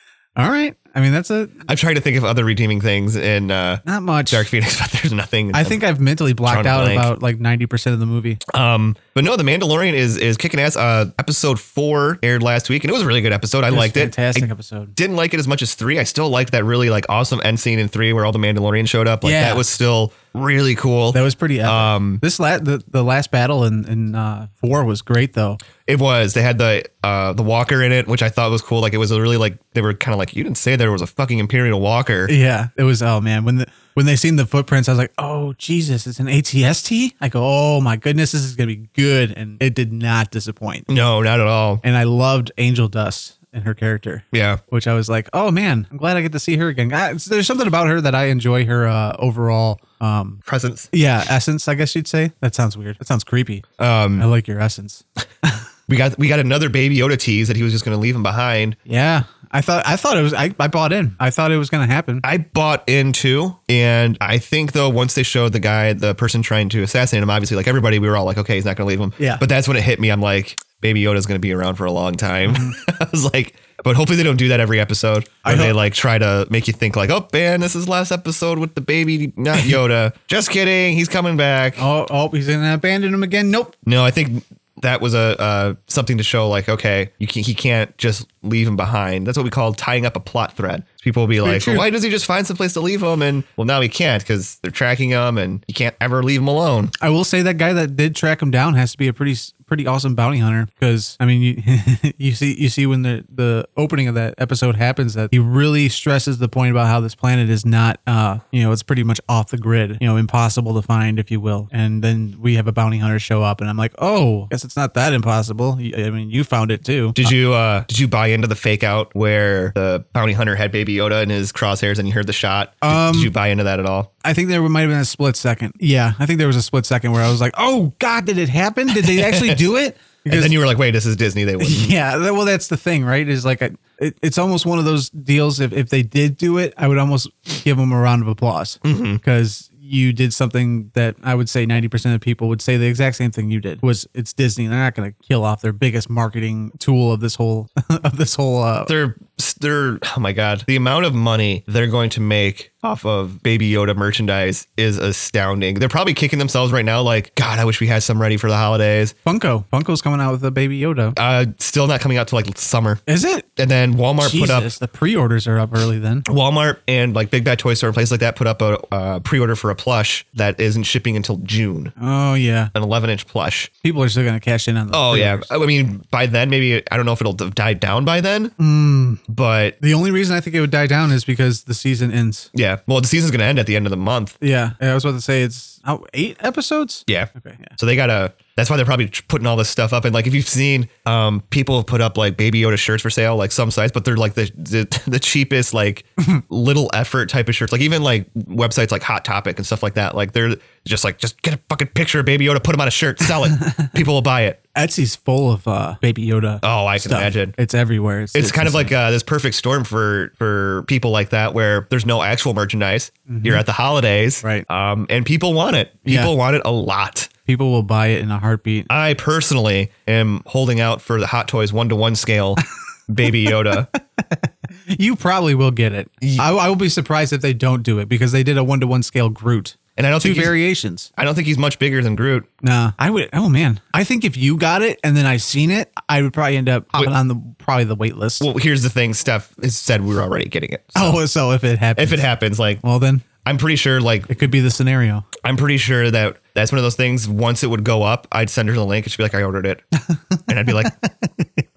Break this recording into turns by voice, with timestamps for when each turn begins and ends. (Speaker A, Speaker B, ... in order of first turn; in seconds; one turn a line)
Speaker A: 0.3-1.7
Speaker B: 1.7-5.8
Speaker A: 3.9-4.5
Speaker A: 5.5-8.4
Speaker B: 6.5-7.1
Speaker B: 8.5-22.2
Speaker A: 13.7-14.9
Speaker A: 19.2-19.6
Speaker A: 21.1-25.6
Speaker B: 25.8-32.3
Speaker A: 32.3-40.9
Speaker B: 40.9-41.8
Speaker A: 41.8-50.4
Speaker B: 44.3-44.6
Speaker B: 50.4-50.9
Speaker A: 50.9-53.6
Speaker B: 53.8-54.3
Speaker A: 54.2-55.6
Speaker B: 55.9-58.8
Speaker A: 58.9-62.2
Speaker B: 62.2-81.8
Speaker A: 69.2-69.4
Speaker A: 72.5-72.8
Speaker A: 75.4-75.8
Speaker A: 81.8-83.7
Speaker B: 83.8-96.9
Speaker A: 91.4-91.8
Speaker A: 97.0-117.3
Speaker B: 117.2-124.1
Speaker A: 122.8-123.3
Speaker A: 124.2-130.5
Speaker B: 128.9-129.6
Speaker B: 130.3-131.9
Speaker A: 131.6-148.9
Speaker B: 138.8-139.2
Speaker B: 148.9-159.2
Speaker A: 159.2-161.2
Speaker B: 161.2-163.0
Speaker A: 163.1-163.4
Speaker B: 163.6-164.7
Speaker A: 164.2-166.2
Speaker B: 166.2-171.9
Speaker A: 172.0-172.7
Speaker B: 172.7-173.7
Speaker A: 173.8-175.5
Speaker B: 174.9-178.5
Speaker A: 178.6-179.2
Speaker B: 179.3-179.8
Speaker A: 179.8-182.5
Speaker B: 182.5-184.3
Speaker A: 184.4-187.8
Speaker B: 187.1-204.6
Speaker A: 203.5-203.9
Speaker A: 204.7-208.9
Speaker B: 206.6-207.5
Speaker B: 208.3-217.3
Speaker A: 213.3-213.6
Speaker A: 216.1-216.3
Speaker A: 217.4-218.9
Speaker B: 218.9-223.9
Speaker A: 223.4-231.1
Speaker B: 226.2-226.5
Speaker B: 229.9-230.5
Speaker B: 231.2-232.4
Speaker A: 232.6-238.5
Speaker B: 238.4-241.2
Speaker A: 240.9-242.3
Speaker B: 242.0-242.8
Speaker A: 242.8-243.2
Speaker B: 243.4-244.3
Speaker A: 244.3-245.2
Speaker B: 245.4-249.8
Speaker A: 250.1-251.6
Speaker B: 250.5-250.9